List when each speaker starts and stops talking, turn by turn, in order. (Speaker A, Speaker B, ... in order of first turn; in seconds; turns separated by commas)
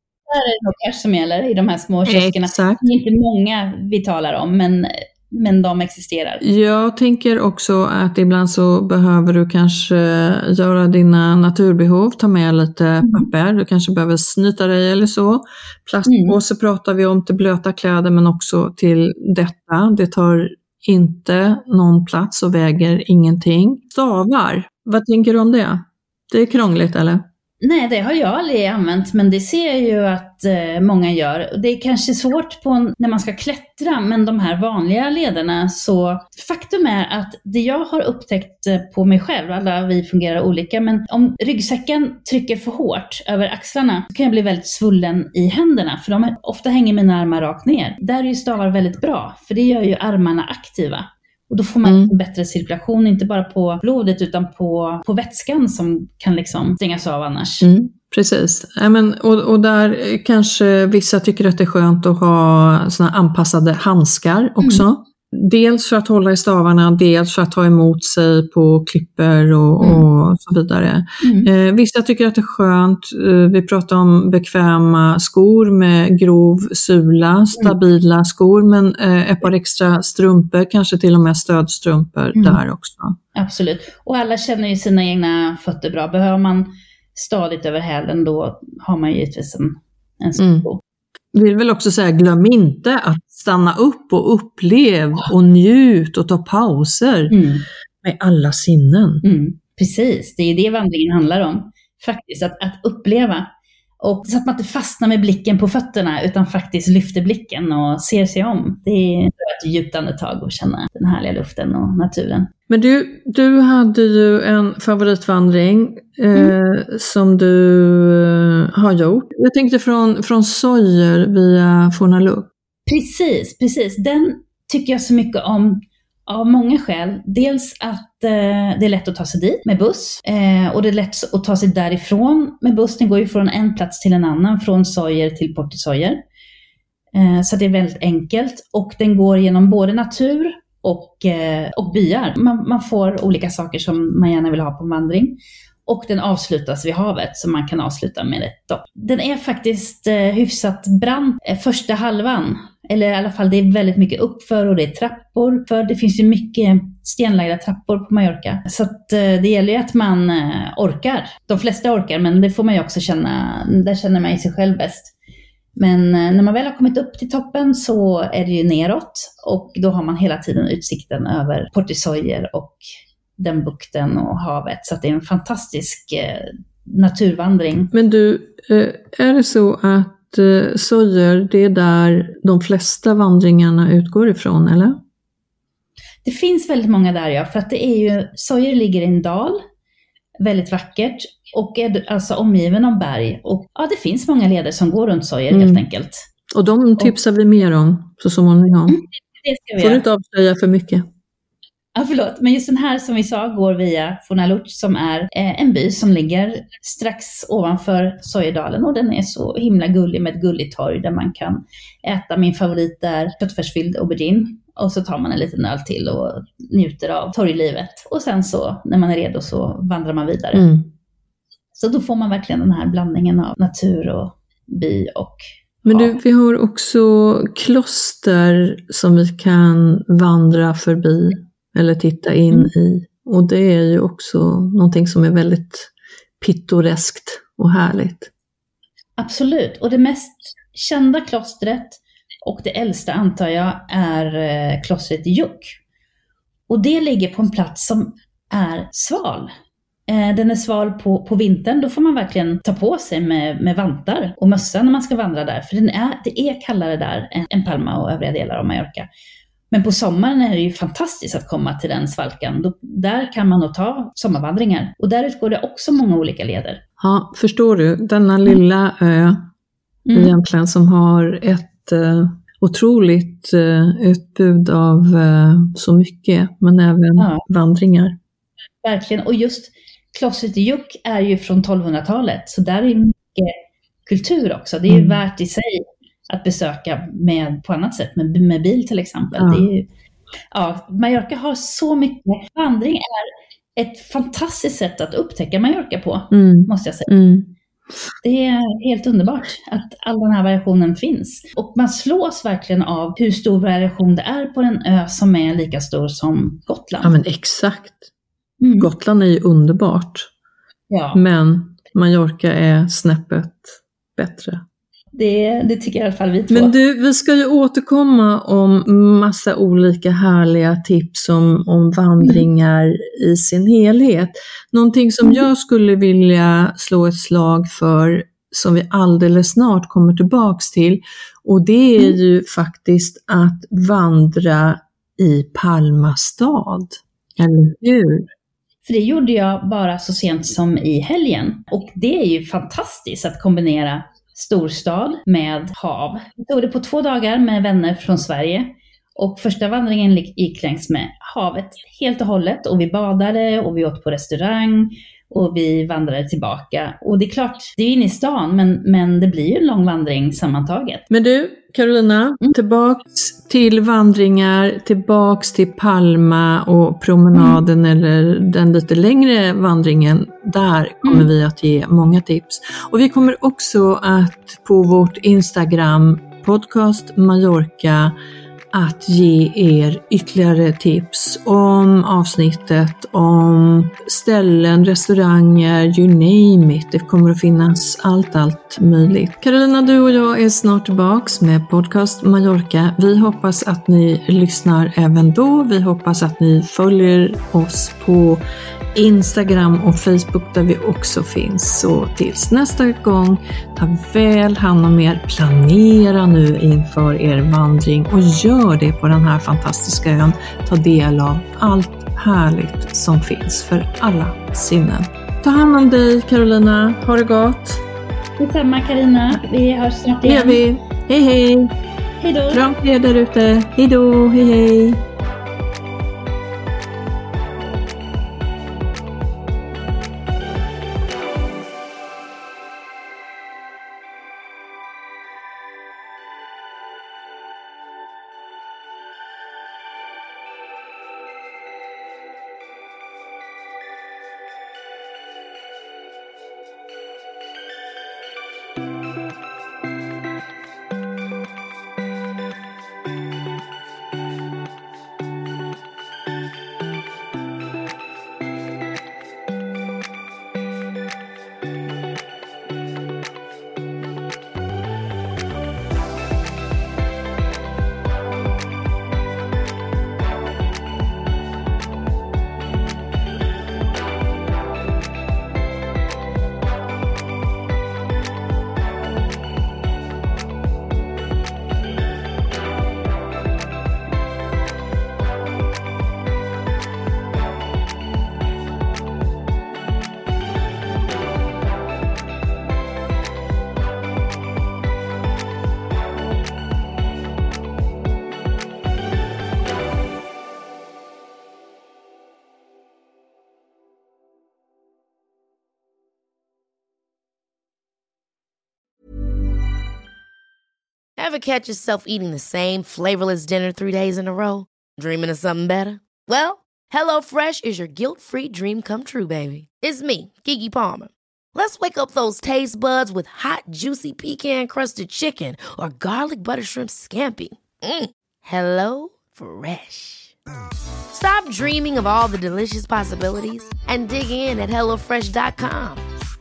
Speaker A: 0.3-6.4, Speaker B: 2.0-2.8, Speaker B: 6.4-27.2, Speaker A: 13.0-13.3, Speaker A: 16.1-16.4, Speaker A: 27.6-57.7, Speaker B: 51.9-52.1, Speaker B: 57.6-83.2, Speaker A: 69.8-70.0, Speaker A: 71.2-71.5, Speaker A: 82.3-82.6, Speaker A: 83.3-90.8, Speaker B: 90.4-90.7, Speaker B: 91.3-97.3, Speaker A: 97.3-97.7, Speaker B: 98.0-99.2, Speaker A: 99.2-103.5, Speaker A: 104.0-112.5, Speaker B: 112.7-122.5, Speaker A: 122.9-136.2, Speaker A: 137.1-165.1, Speaker A: 165.8-172.8, Speaker A: 173.4-177.9, Speaker B: 177.9-185.0, Speaker A: 186.2-189.6, Speaker A: 190.4-196.2, Speaker B: 195.5-195.8, Speaker B: 196.5-199.0, Speaker A: 198.9-200.0, Speaker B: 199.8-201.1, Speaker A: 201.9-220.7, Speaker B: 220.5-220.9, Speaker A: 221.7-226.1, Speaker B: 225.8-238.3, Speaker A: 239.2-245.7, Speaker A: 246.7-249.5, Speaker A: 250.1-259.1, Speaker A: 259.7-266.8, Speaker B: 267.0-269.5, Speaker A: 270.1-270.3, Speaker B: 270.1-278.1, Speaker A: 277.2-277.4, Speaker A: 278.8-289.8, Speaker B: 284.9-285.2, Speaker B: 289.3-289.7, Speaker A: 290.5-297.1, Speaker B: 296.3-297.5, Speaker A: 298.2-307.1, Speaker B: 307.0-308.1, Speaker A: 308.6-308.9, Speaker B: 308.8-310.3, Speaker A: 310.9-311.2, Speaker B: 311.1-314.6, Speaker A: 315.1-316.7, Speaker B: 316.5-338.3, Speaker A: 322.2-322.4, Speaker A: 338.8-361.0, Speaker B: 361.1-378.1, Speaker A: 367.3-367.6, Speaker A: 371.0-371.3, Speaker B: 378.7-398.4, Speaker B: 398.9-417.8, Speaker A: 418.4-420.6, Speaker B: 420.2-421.7, Speaker A: 422.2-422.6, Speaker B: 422.5-425.0, Speaker C: 511.2-530.3, Speaker C: 531.1-536.0